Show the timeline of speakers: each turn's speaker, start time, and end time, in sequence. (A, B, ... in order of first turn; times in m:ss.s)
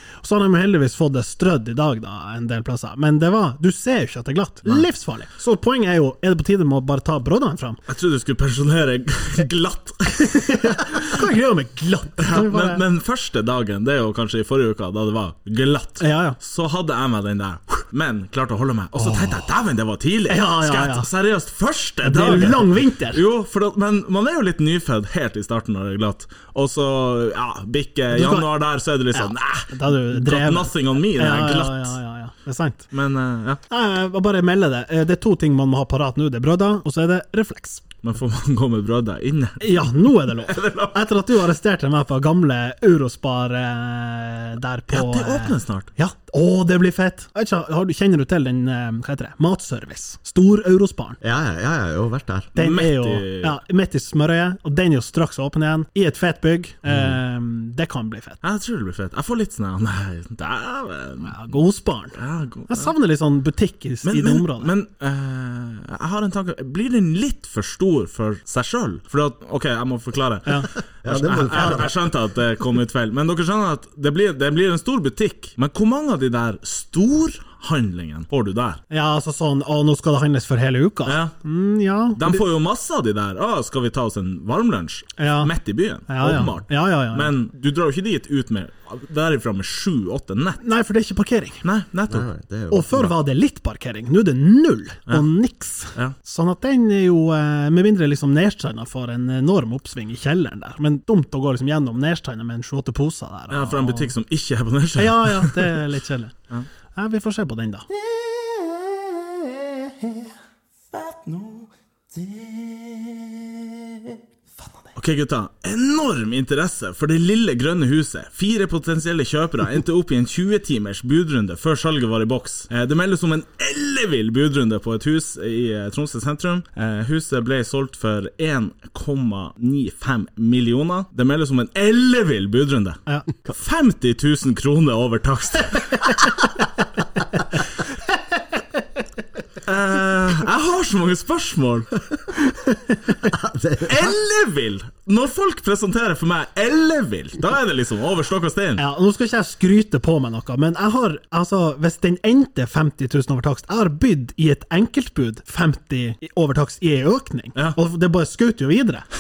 0:00.2-0:07.8 A
0:07.9-0:11.2 B
0:10.2-0:12.8 A
0:12.2-0:32.0 B
0:16.0-0:16.4 A
0:18.9-0:19.5 A
0:20.3-0:21.1 A
0:22.0-0:23.2 A
0:28.1-0:28.5 A
0:29.1-0:32.9 A
0:32.9-0:33.6 B
0:33.7-0:37.8 A
0:38.0-0:41.0 B
0:39.6-0:51.2 A
0:44.9-0:45.9 B
0:51.2-0:52.5 C
0:52.6-0:58.4 A
0:52.6-0:53.6 B
0:56.8-0:57.2 C
0:58.4-1:01.5 B
1:01.2-1:02.2 A
1:02.2-1:02.9 B
1:02.7-1:04.7 A
1:04.0-1:18.8 B
1:11.0-1:12.0 C
1:11.5-1:11.9 A
1:18.9-1:22.2 A
1:21.1-1:21.3 B
1:22.2-1:30.6 B
1:25.2-1:25.5 A
1:26.1-1:27.3 A
1:30.6-1:31.6 A
1:31.6-1:32.2 B
1:32.1-1:33.2 C
1:32.7-1:44.2 A
1:43.5-1:45.8 B
1:45.0-1:46.3 A
1:46.9-1:47.9 A
1:55.0-2:16.2 B
2:19.6-2:21.9 B
2:22.7-2:23.0 A
2:23.2-2:24.2 C
2:23.8-2:28.8 B
2:28.8-2:39.0 A